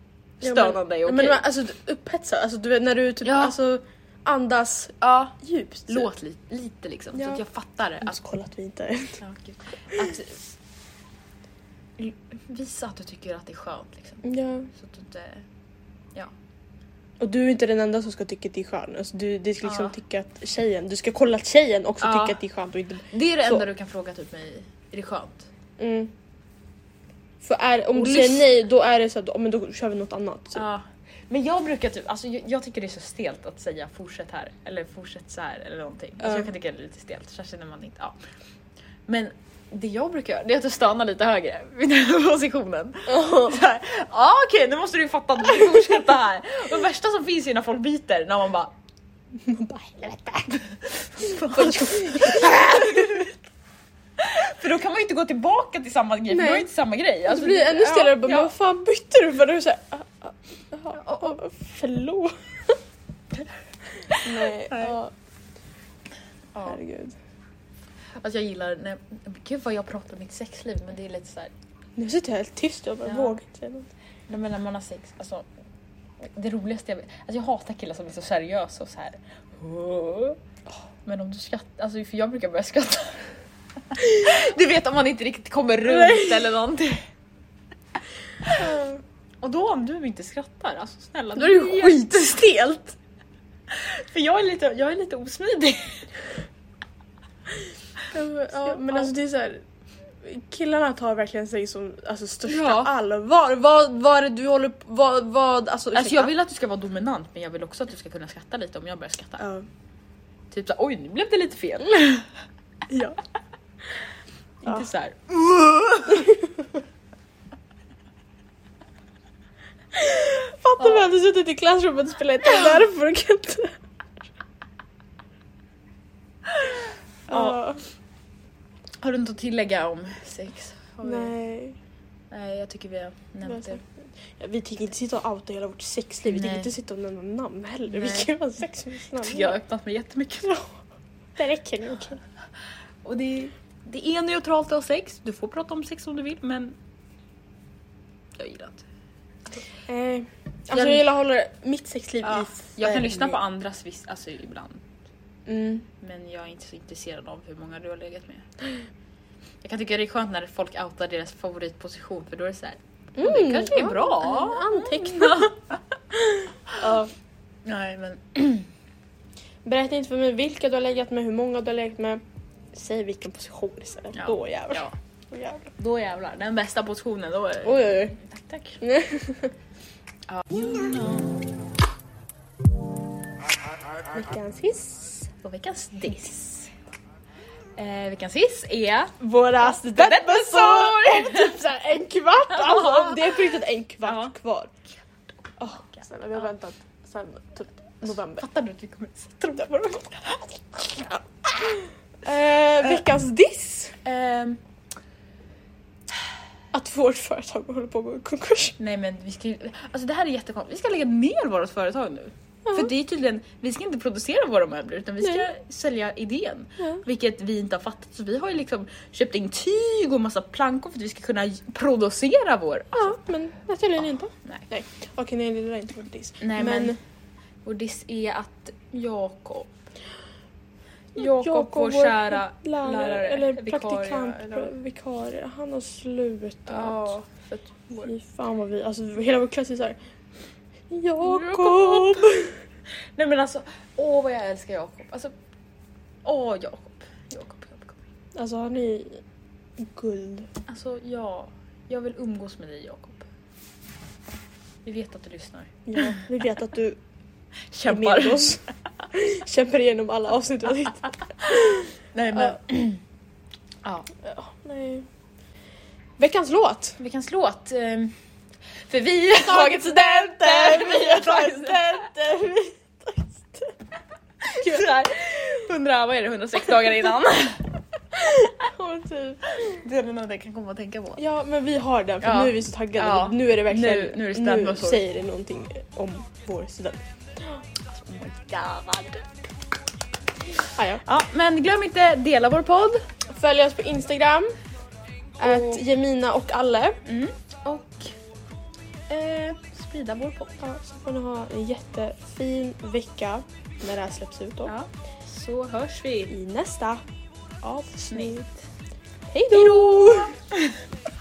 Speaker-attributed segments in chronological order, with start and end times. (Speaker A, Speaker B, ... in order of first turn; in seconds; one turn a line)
Speaker A: 0.4-1.4
Speaker B: 0.4-6.1
Speaker A: 3.2-3.5
Speaker A: 5.0-5.3
Speaker A: 5.9-8.1
Speaker B: 7.1-7.4
Speaker B: 8.0-9.2
Speaker A: 9.2-10.4
Speaker A: 12.0-15.4
Speaker B: 14.2-14.7
Speaker B: 17.2-23.6
Speaker A: 19.6-19.9
Speaker A: 22.0-22.4
Speaker A: 23.1-25.5
Speaker B: 25.8-26.1
Speaker B: 27.4-30.6
Speaker A: 27.9-28.4
Speaker A: 30.5-38.1
Speaker B: 36.2-36.5
Speaker A: 39.1-48.7
Speaker B: 43.1-43.6
Speaker B: 49.4-50.5
Speaker A: 50.5-53.3
Speaker B: 51.3-53.2
Speaker A: 54.2-58.5
Speaker B: 56.3-56.7
Speaker B: 57.3-62.8
Speaker A: 60.9-61.4
Speaker A: 64.0-64.9
Speaker B: 64.2-65.1
Speaker A: 66.5-66.8
Speaker B: 66.6-67.2
Speaker A: 68.2-71.5
Speaker B: 72.0-73.9
Speaker A: 73.0-73.4
Speaker A: 74.3-75.5
Speaker A: 76.2-80.4
Speaker A: 81.0-83.3
Speaker A: 83.9-87.0
Speaker B: 85.8-86.5
Speaker A: 88.4-88.7
Speaker B: 88.5-89.0
Speaker A: 89.4-92.3
Speaker B: 91.3-93.0
Speaker A: 93.7-96.2
Speaker B: 98.1-99.6
Speaker A: 98.6-99.1
Speaker B: 100.2-106.3
Speaker A: 102.5-102.9
Speaker A: 105.9-109.4
Speaker B: 109.4-109.7
Speaker A: 110.5-112.3
Speaker B: 112.9-113.2
Speaker A: 114.6-116.3
Speaker B: 116.1-116.6
Speaker B: 119.9-123.8
Speaker B: 127.3-127.8
Speaker A: 127.3-127.6
Speaker A: 129.0-131.3
Speaker B: 131.0-131.8
Speaker A: 132.3-133.8
Speaker B: 133.4-139.6
Speaker A: 136.3-136.7
Speaker A: 137.9-138.3
Speaker A: 139.2-140.6
Speaker B: 140.4-140.7
Speaker B: 141.3-142.2
Speaker A: 143.0-146.8
Speaker A: 148.3-148.8
Speaker B: 149.9-153.4
Speaker A: 150.7-151.0
Speaker A: 152.2-154.8
Speaker B: 155.4-155.8
Speaker A: 156.0-158.5
Speaker A: 159.6-165.8
Speaker B: 163.2-165.5
Speaker B: 166.1-167.1
Speaker A: 167.6-168.7
Speaker B: 169.6-175.7
Speaker A: 174.2-174.9
Speaker A: 175.8-178.8
Speaker B: 177.6-178.2
Speaker B: 178.8-179.5
Speaker A: 180.3-181.3
Speaker B: 184.1-185.3
Speaker A: 185.4-186.7
Speaker A: 187.8-191.6
Speaker B: 189.2-194.7
Speaker A: 192.5-193.4
Speaker A: 194.0-194.3
Speaker A: 195.5-196.4
Speaker B: 195.6-198.4
Speaker A: 198.0-201.1
Speaker B: 201.0-204.0
Speaker A: 204.0-204.6
Speaker B: 206.7-208.8
Speaker A: 208.8-223.2
Speaker B: 212.7-212.9
Speaker B: 215.2-215.5
Speaker B: 222.9-227.0
Speaker A: 226.4-227.0
Speaker A: 227.6-229.7
Speaker A: 231.1-234.7
Speaker B: 231.2-237.1
Speaker A: 236.7-238.1
Speaker B: 238.0-240.0
Speaker B: 240.9-242.6
Speaker A: 241.2-242.4
Speaker A: 243.2-245.3
Speaker A: 246.2-248.0
Speaker B: 248.3-249.2
Speaker B: 249.8-250.5
Speaker A: 250.7-253.2
Speaker A: 254.8-256.2
Speaker B: 255.9-257.0
Speaker A: 257.7-258.6
Speaker B: 257.9-262.6
Speaker A: 261.4-263.0
Speaker A: 263.8-264.1
Speaker B: 264.2-265.1
Speaker B: 266.2-267.0
Speaker A: 267.0-268.1
Speaker A: 268.9-272.0
Speaker B: 269.4-273.7
Speaker A: 274.4-277.8
Speaker B: 274.6-274.9
Speaker B: 278.1-279.8
Speaker A: 279.5-281.2
Speaker B: 281.2-287.6
Speaker A: 282.2-285.0
Speaker A: 287.9-289.3
Speaker B: 290.8-291.0
Speaker A: 291.0-293.1
Speaker B: 293.2-294.6
Speaker B: 295.4-297.0
Speaker A: 295.4-295.8
Speaker A: 297.0-298.2
Speaker A: 299.1-300.6
Speaker B: 300.6-304.7
Speaker A: 304.6-306.3
Speaker B: 306.3-307.0
Speaker A: 307.6-308.5
Speaker B: 307.8-308.4
Speaker B: 309.3-310.4
Speaker A: 309.5-310.7